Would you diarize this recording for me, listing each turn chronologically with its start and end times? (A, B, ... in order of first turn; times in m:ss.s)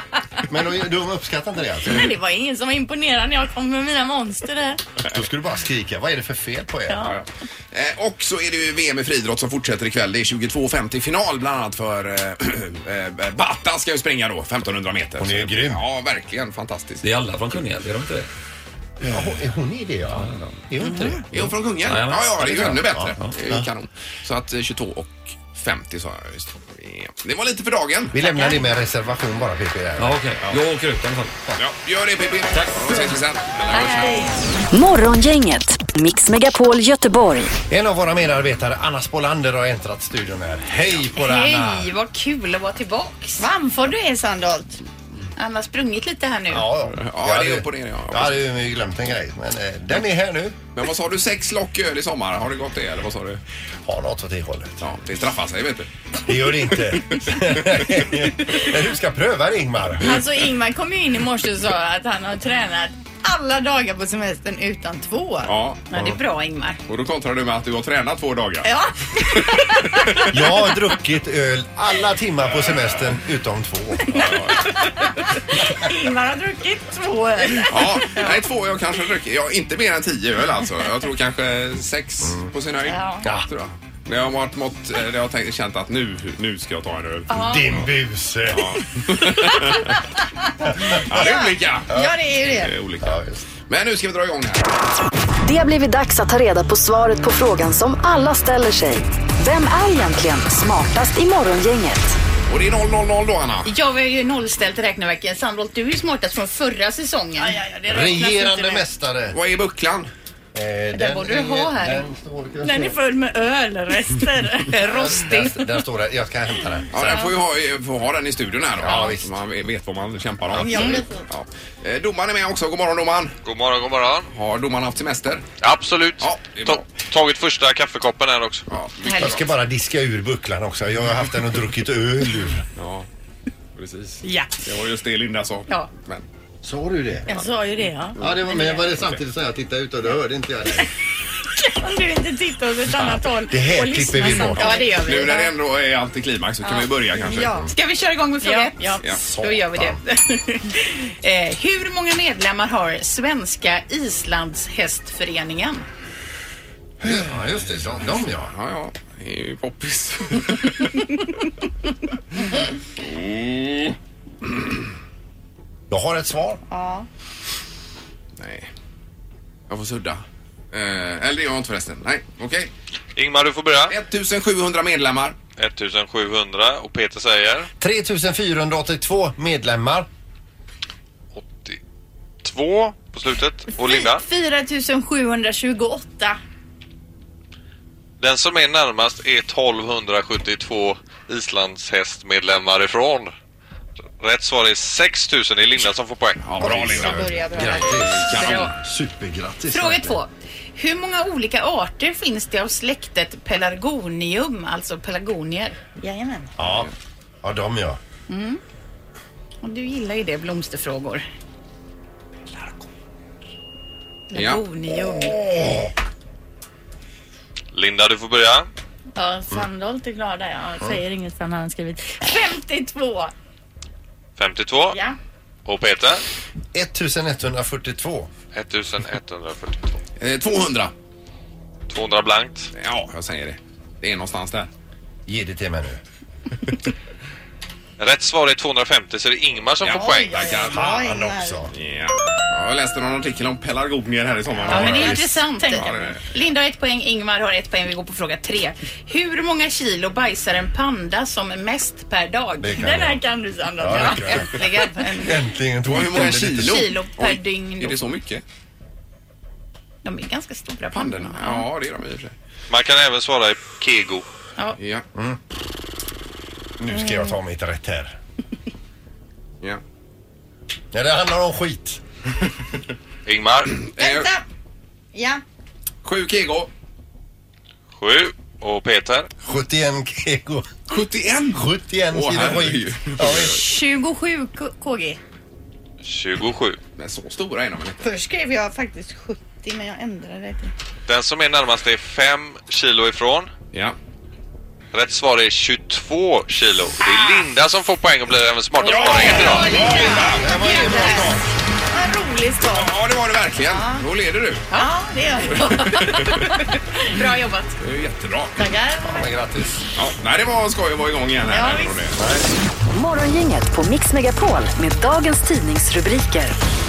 0:00.5-0:02.1 A
0:01.9-0:04.8 B
0:05.1-0:07.1 A
0:06.9-0:07.1 B
0:07.0-0:17.0 C
0:15.2-0:15.8 A
0:17.0-0:18.3 D
0:19.0-0:21.3 A
0:20.2-0:20.6 D
0:21.3-0:28.2 C
0:21.4-0:23.3 D
0:22.4-0:23.7 A
0:28.1-0:30.6 A
0:30.0-0:31.3 D
0:31.6-0:34.2 C
0:32.5-0:33.0 D
0:33.7-0:34.1 E
0:33.8-0:34.2 B
0:34.7-0:37.6 F
0:37.7-0:41.9 A
0:41.1-0:43.4 E
0:43.4-0:44.8 B
0:45.4-0:46.7 E
0:46.5-0:50.6 A
0:46.9-0:48.4 C
0:50.8-0:53.4 C
0:53.9-0:54.8 A
0:54.8-0:55.9 C
0:56.2-1:00.2 A
1:00.0-1:05.5 B
1:05.4-1:05.9 C
1:05.9-1:06.8 E
1:06.9-1:10.3 C
1:08.6-1:09.9 B
1:10.3-1:14.2 A
1:14.1-1:14.9 C
1:15.6-1:18.3 B
1:17.7-1:27.3 C
1:22.9-1:23.2 B
1:27.3-1:27.7 E
1:27.3-1:28.8 A
1:28.5-1:30.0 C
1:30.9-1:31.9 C
1:31.1-1:32.7 B
1:32.6-1:33.1 C
1:33.0-1:33.5 A
1:33.7-1:34.8 C
1:35.4-1:42.2 F
1:42.5-1:43.7 C
1:43.7-1:48.5 E
1:47.4-1:48.8 B
1:47.9-1:49.4 A
1:49.3-1:50.1 C
1:50.5-1:53.0 A
1:51.0-1:52.0 E
1:52.6-1:55.5 E
1:52.7-1:53.0 B
1:53.9-1:55.5 B
1:54.8-1:57.2 A
1:56.9-2:03.4 C
1:58.8-1:59.3 A
2:00.5-2:01.0 A
2:00.6-2:01.2 B
2:03.4-2:04.3 G
2:04.3-2:05.4 C
2:05.6-2:08.7 G
2:06.2-2:06.8 C
2:08.7-2:09.5 C
2:09.2-2:12.6 A
2:12.8-2:13.1 C
2:13.8-2:16.2 C
2:16.6-2:17.3 A
2:17.3-2:18.8 B
2:18.2-2:18.5 C
2:18.2-2:20.9 A
2:21.8-2:23.3 B
2:22.7-2:25.5 E
2:23.0-2:24.9 A
2:24.1-2:25.5 B
2:25.0-2:27.6 C
2:27.2-2:27.8 B
2:27.6-2:35.8 E
2:28.4-2:29.0 B
2:29.1-2:30.0 A
2:37.0-2:38.5 A
2:38.3-2:41.1 C
2:43.0-2:44.0 C
2:45.9-2:46.6 A
2:46.7-2:47.1 B
2:48.4-2:48.7 C
2:49.7-2:52.7 C
2:53.2-2:54.0 G
2:53.9-2:55.4 C
2:55.6-2:57.7 G
2:57.8-3:00.1 A
3:01.4-3:01.8 G
3:02.4-3:04.2 G
3:03.8-3:06.4 B
3:08.2-3:13.4 G
3:14.2-3:16.5 G
3:16.4-3:18.7 C
3:16.6-3:20.2 A
3:17.0-3:18.0 B
3:19.7-3:25.8 E
3:26.0-3:26.5 B
3:26.6-3:26.9 A
3:26.6-3:26.9 C
3:27.4-3:28.0 A
3:29.6-3:31.2 E
3:34.3-3:35.4 B
3:34.3-3:34.6 C
3:35.0-3:35.9 A
3:37.7-3:38.7 G
3:39.2-3:43.3 B
3:44.4-3:45.0 G
3:45.7-3:46.2 G
3:46.7-3:48.3 A
3:48.5-3:50.0 G
3:50.2-3:50.9 C
3:51.9-3:52.7 G
3:52.8-3:54.7 C
3:55.3-3:56.0 A
3:58.0-4:00.5 G
3:59.8-4:00.8 C
3:59.9-4:01.6 B
4:00.7-4:01.7 A
4:01.7-4:05.2 C
4:04.7-4:05.4 A
4:04.7-4:14.2 E
4:04.7-4:06.0 B
4:05.8-4:06.2 C
4:12.6-4:13.2 A
4:13.3-4:15.4 B
4:13.8-4:14.5 A
4:15.1-4:16.9 A
4:15.8-4:18.4 C
4:16.7-4:17.9 B
4:20.0-4:21.6 B
4:20.9-4:22.3 C
4:22.7-4:24.2 G
4:24.8-4:25.1 C
4:26.8-4:28.2 A
4:30.9-4:32.0 A
4:33.3-4:33.7 G
4:33.8-4:34.3 C
4:34.0-4:34.4 B
4:35.1-4:35.4 B
4:36.0-4:36.7 C
4:38.0-4:39.3 G
4:39.4-4:40.8 A
4:40.9-4:43.6 C
4:41.5-4:43.6 A
4:43.4-4:45.2 B
4:46.0-4:46.8 G
4:47.0-4:48.1 C
4:48.0-4:50.7 B
4:51.1-4:53.5 G
4:54.9-4:59.8 G
4:58.8-5:03.0 B
4:58.8-5:01.0 C
4:59.8-5:01.4 A
5:02.6-5:04.7 C
5:03.7-5:04.0 B
5:04.7-5:06.3 B
5:05.5-5:06.4 C
5:05.9-5:07.8 E
5:07.8-5:08.6 C
5:08.6-5:09.3 B
5:09.0-5:09.8 A
5:10.0-5:12.2 C
5:11.5-5:12.0 B
5:12.2-5:12.5 A
5:12.9-5:16.6 F